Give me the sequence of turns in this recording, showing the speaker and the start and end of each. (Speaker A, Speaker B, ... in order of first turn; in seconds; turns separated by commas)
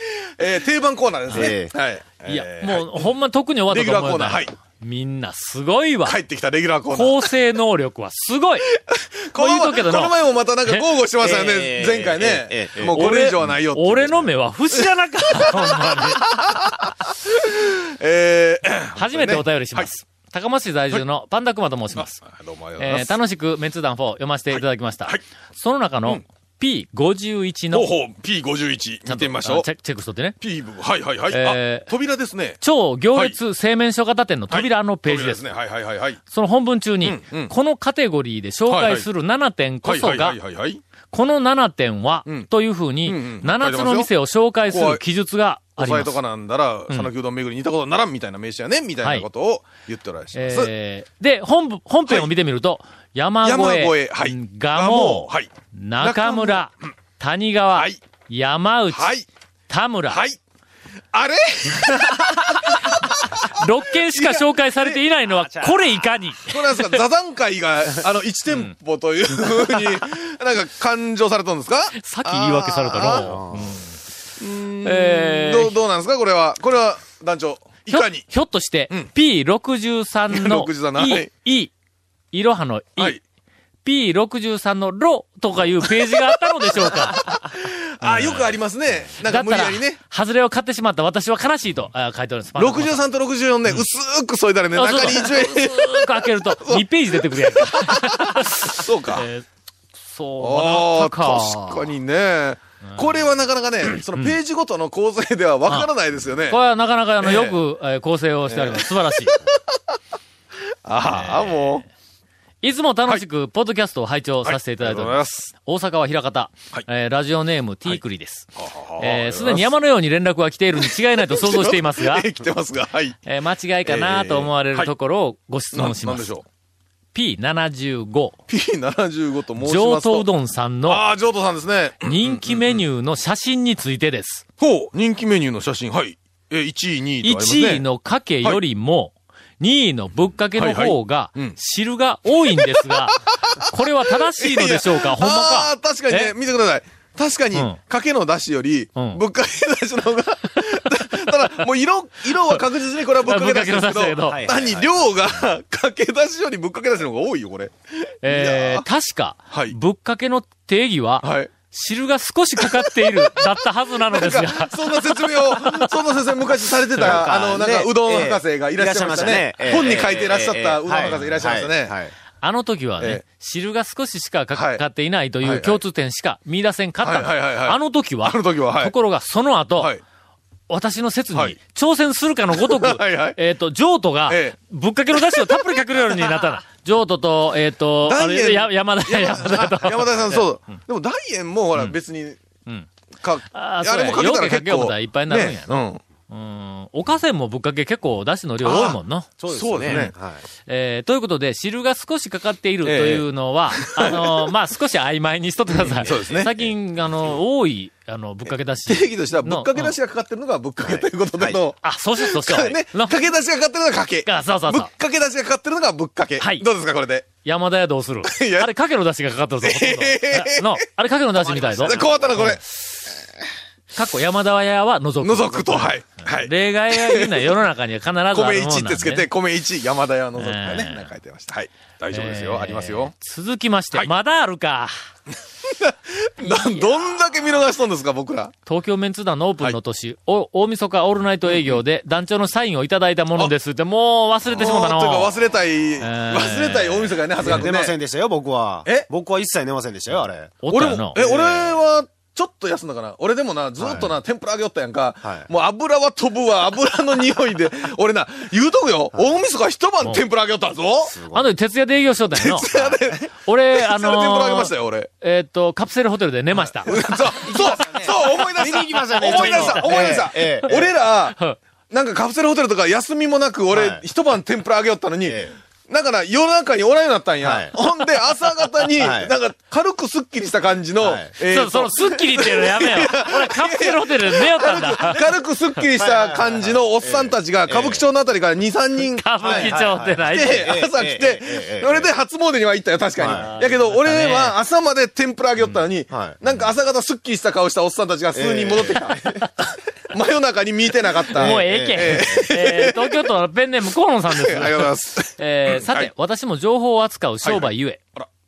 Speaker A: 0.4-3.1, Speaker B: 1.3-1.7, Speaker C: 2.3-6.2, Speaker A: 3.7-4.5, Speaker A: 6.1-7.3, Speaker C: 6.9-8.7, Speaker A: 8.8-14.3, Speaker C: 9.3-10.9, Speaker B: 11.2-13.3, Speaker C: 12.8-16.3, Speaker A: 15.4-19.9, Speaker C: 19.0-22.2, Speaker A: 21.9-23.2, Speaker C: 22.8-27.9, Speaker A: 24.5-25.2, Speaker A: 27.7-29.7, Speaker C: 29.1-30.4, Speaker A: 30.4-32.6, Speaker C: 31.3-31.9, Speaker C: 32.6-35.5, Speaker A: 34.5-36.2, Speaker C: 36.3-40.4, Speaker A: 37.0-37.5, Speaker A: 38.7-39.1, Speaker A: 39.8-40.8, Speaker C: 41.1-46.2, Speaker A: 43.0-44.1, Speaker A: 44.7-45.0, Speaker A: 45.8-50.7, Speaker C: 49.0-49.3, Speaker C: 50.3-59.1, Speaker A: 53.4-55.5, Speaker A: 56.0-56.7, Speaker A: 58.9-59.3, Speaker C: 59.7-60.2, Speaker A: 60.1-60.4, Speaker A: 61.1-63.5, Speaker C: 62.9-67.0, Speaker A: 64.1-65.0, Speaker B: 65.4-66.0, Speaker A: 66.5-73.5, Speaker C: 72.0-73.8, Speaker B: 73.0-73.8, Speaker A: 74.4-78.3, Speaker C: 74.8-75.8, Speaker C: 77.9-81.7, Speaker A: 80.3-81.3, Speaker C: 82.3-83.2, Speaker C: 83.8-87.4, Speaker A: 86.8-90.0, Speaker C: 88.0-88.6, Speaker C: 89.2-93.1, Speaker A: 92.6-99.2, Speaker C: 94.7-99.5, Speaker C: 100.0-101.9, Speaker A: 100.4-106.6, Speaker C: 105.7-105.9, Speaker C: 106.5-109.4, Speaker A: 107.2-107.6, Speaker A: 108.5-109.8, Speaker A: 110.8-111.8, Speaker C: 111.1-111.8, Speaker C: 112.6-122.3, Speaker A: 114.5-115.5, Speaker A: 118.6-119.8, Speaker A: 120.8-123.2, Speaker C: 123.2-126.4, Speaker A: 123.8-124.9, Speaker A: 125.7-126.4, Speaker C: 127.1-128.4, Speaker A: 128.5-130.3, Speaker C: 129.6-131.1, Speaker A: 130.9-132.8, Speaker C: 132.0-134.4, Speaker A: 134.6-137.8, Speaker C: 137.2-146.3, Speaker A: 140.6-141.6, Speaker A: 143.3-158.8, Speaker C: 147.5-147.8, Speaker C: 149.0-149.2, Speaker C: 153.2-154.4, Speaker B: 154.3-155.2, Speaker C: 158.2-165.9, Speaker A: 161.2-161.5, Speaker A: 164.1-172.0, Speaker B: 167.0-172.1, Speaker C: 167.0-167.2, Speaker C: 171.1-171.3, Speaker C: 172.4-179.9, Speaker A: 174.5-174.8, Speaker A: 175.4-175.8, Speaker A: 177.0-178.9, Speaker C: 180.7-190.8, Speaker A: 182.6-183.4, Speaker A: 184.3-184.6, Speaker A: 185.1-186.4, Speaker A: 188.1-192.4, Speaker A: 193.2-196.0, Speaker C: 193.5-199.3, Speaker A: 198.6-199.0, Speaker B: 199.4-200.4, Speaker A: 199.5-200.1, Speaker C: 199.9-200.1, Speaker C: 200.7-210.0, Speaker A: 202.8-203.2, Speaker A: 203.9-204.3, Speaker A: 205.8-206.6, Speaker A: 208.5-217.3, Speaker B: 210.8-211.6, Speaker C: 211.8-213.2, Speaker C: 214.2-214.9, Speaker C: 216.4-216.7, Speaker C: 217.4-222.6, Speaker A: 218.2-218.7, Speaker A: 219.6-220.8, Speaker A: 221.4-222.8, Speaker B: 221.8-222.3, Speaker C: 223.9-229.3, Speaker A: 225.2-227.6, Speaker A: 228.3-233.1, Speaker C: 230.4-231.1, Speaker C: 232.1-234.9, Speaker A: 235.7-238.5, Speaker C: 236.4-237.1, Speaker C: 238.7-245.4, Speaker A: 241.5-241.8, Speaker A: 244.5-247.9, Speaker C: 246.0-247.7, Speaker B: 247.4-250.6, Speaker C: 250.6-251.2, Speaker A: 250.7-261.1, Speaker B: 251.1-251.8, Speaker B: 253.8-254.2, Speaker B: 255.2-255.5, Speaker B: 261.1-261.5, Speaker C: 261.3-266.9, Speaker A: 262.3-265.1, Speaker A: 266.6-271.4, Speaker B: 266.9-270.9, Speaker C: 269.2-270.8, Speaker C: 271.3-271.6, Speaker A: 271.9-303.3, Speaker B: 273.7-274.1, Speaker B: 275.3-275.5, Speaker B: 277.4-277.8, Speaker B: 278.8-279.3, Speaker B: 281.0-281.3, Speaker C: 281.4-285.8, Speaker B: 285.9-288.1, Speaker C: 289.1-290.9, Speaker B: 289.4-292.1, Speaker B: 293.2-293.5, Speaker C: 293.2-294.6, Speaker C: 295.6-295.9, Speaker B: 296.1-296.6, Speaker B: 298.3-299.4, Speaker C: 301.3-308.0, Speaker B: 301.4-302.4, Speaker A: 304.3-306.1, Speaker A: 307.4-308.3